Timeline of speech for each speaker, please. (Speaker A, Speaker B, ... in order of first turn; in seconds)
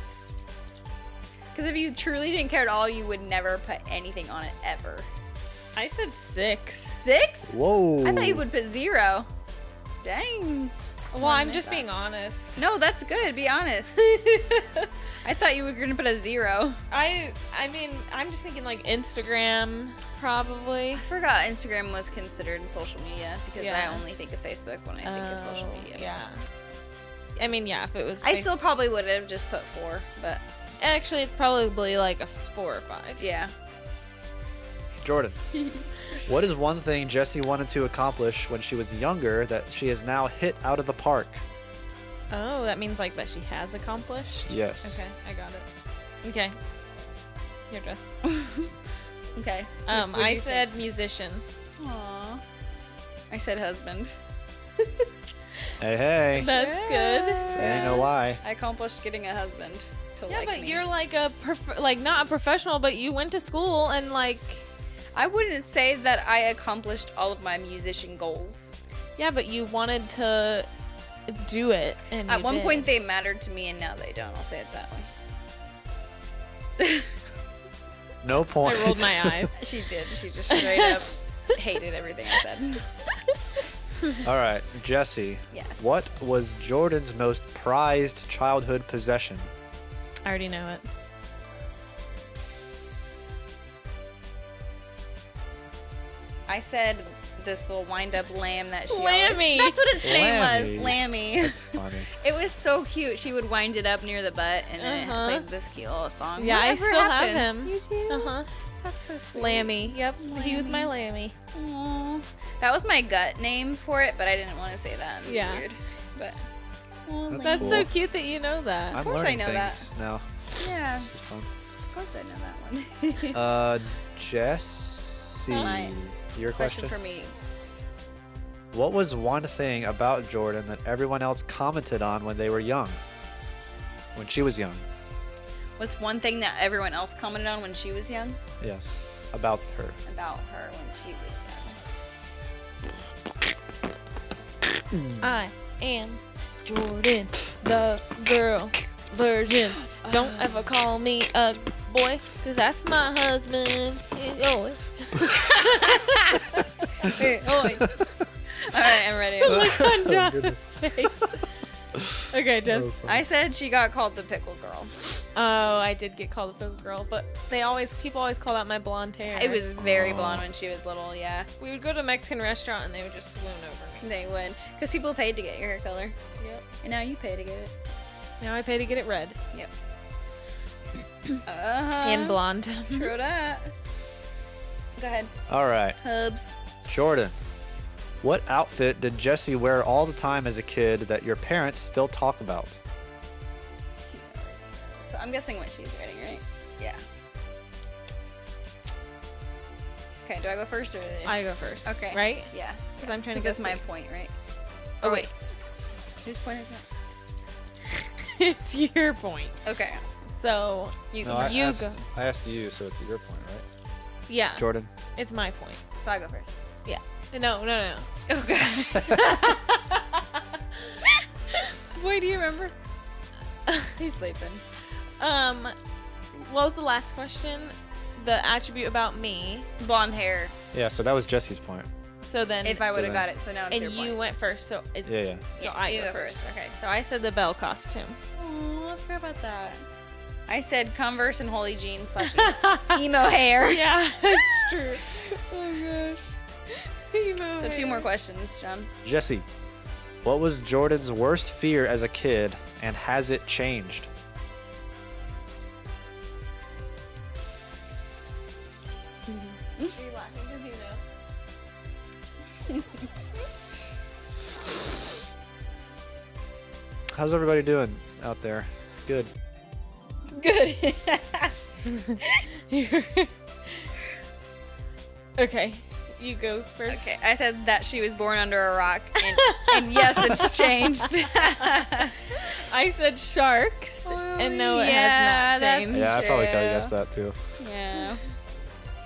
Speaker A: 1.5-5.1, 7.0-7.5, 8.0-9.3, 10.0-11.9, 12.6-14.0, 15.2-16.8, 20.9-26.1, 28.2-30.4, 33.2-33.5, 35.5-35.9, 48.2-48.7, 49.4-50.7, 51.8-52.4, 53.3-54.1, 56.4-60.8, 65.2-68.7, 72.3-75.1, 76.8-77.1, 79.6-82.9, 85.5-85.9, 96.5-110.9, 111.5-116.4, 117.1-117.9, 119.0-119.9, 120.6-121.1, 121.9-123.4, 125.5-126.0, 126.6-127.3, 135.8-138.4, 140.1-141.8, 150.0-150.6, 157.0-157.9, 158.6-159.7, 163.0-164.9, 169.3-171.5, 174.0-176.2, 176.8-177.7, 181.4-182.4, 182.9-183.7, 185.0-185.3, 186.0-186.5, 194.1-197.0, 200.2-204.3, 205.0-205.3, 206.2-206.8, 209.7-210.0, 211.1-211.8, 216.0-216.6, 218.3-219.6, 221.9-222.7, 223.8-224.6, 229.8-230.5, 232.6-234.2, 235.6-236.8, 238.4-239.8, 240.5-246.3, 247.6-248.9, 259.3-260.0, 270.3-271.6, 276.9-282.2, 284.1-286.9, 287.6-288.2
Speaker B: 5.8-7.0, 11.1-12.6, 14.0-14.9, 16.9-21.0, 23.6-24.0, 25.0-26.4, 27.4-28.5, 30.8-33.2, 42.3-45.7, 46.2-46.6, 47.7-48.1, 49.9-51.4, 56.3-58.1, 60.3-64.6, 69.2-70.7, 71.3-72.9, 78.6-79.6, 80.5-81.0, 90.3-90.9, 98.9-99.8, 104.8-105.5, 106.4-108.5, 109.3-111.3, 115.3-115.7, 117.4-119.0, 125.5-125.8, 145.2-156.6, 159.4-161.4, 162.3-163.0, 165.4-169.8, 171.6-174.1, 176.4-176.7, 178.4-179.4, 182.0-183.1, 201.2-203.8, 205.0-205.3, 208.2-209.6, 210.4-212.0, 214.3-215.8, 216.8-218.1, 219.2-220.4, 225.2-225.7, 226.3-229.7, 232.2-233.0, 233.7-238.2, 242.2-243.0, 243.7-245.3, 246.7-248.1, 259.8-261.0, 272.7-273.2, 275.4-277.2, 279.3-281.1, 282.3-286.3
Speaker C: 7.5-8.4, 35.0-35.4, 36.2-41.4, 44.5-45.0, 55.8-56.5, 57.6-58.4, 78.2-79.5, 84.2-89.5, 100.0-102.1, 117.3-117.9, 118.9-121.5, 123.3-127.0, 128.7-133.0, 134.2-134.8, 138.6-140.0, 144.9-145.4, 159.4-160.6, 162.0-163.2, 169.8-170.5, 185.5-186.0, 186.8-187.3, 188.2-192.8, 211.2-213.7, 214.6-214.9, 230.7-231.9, 232.9-233.3, 235.1-235.5, 249.0-249.5, 250.2-254.1, 267.1-269.3, 285.9-287.4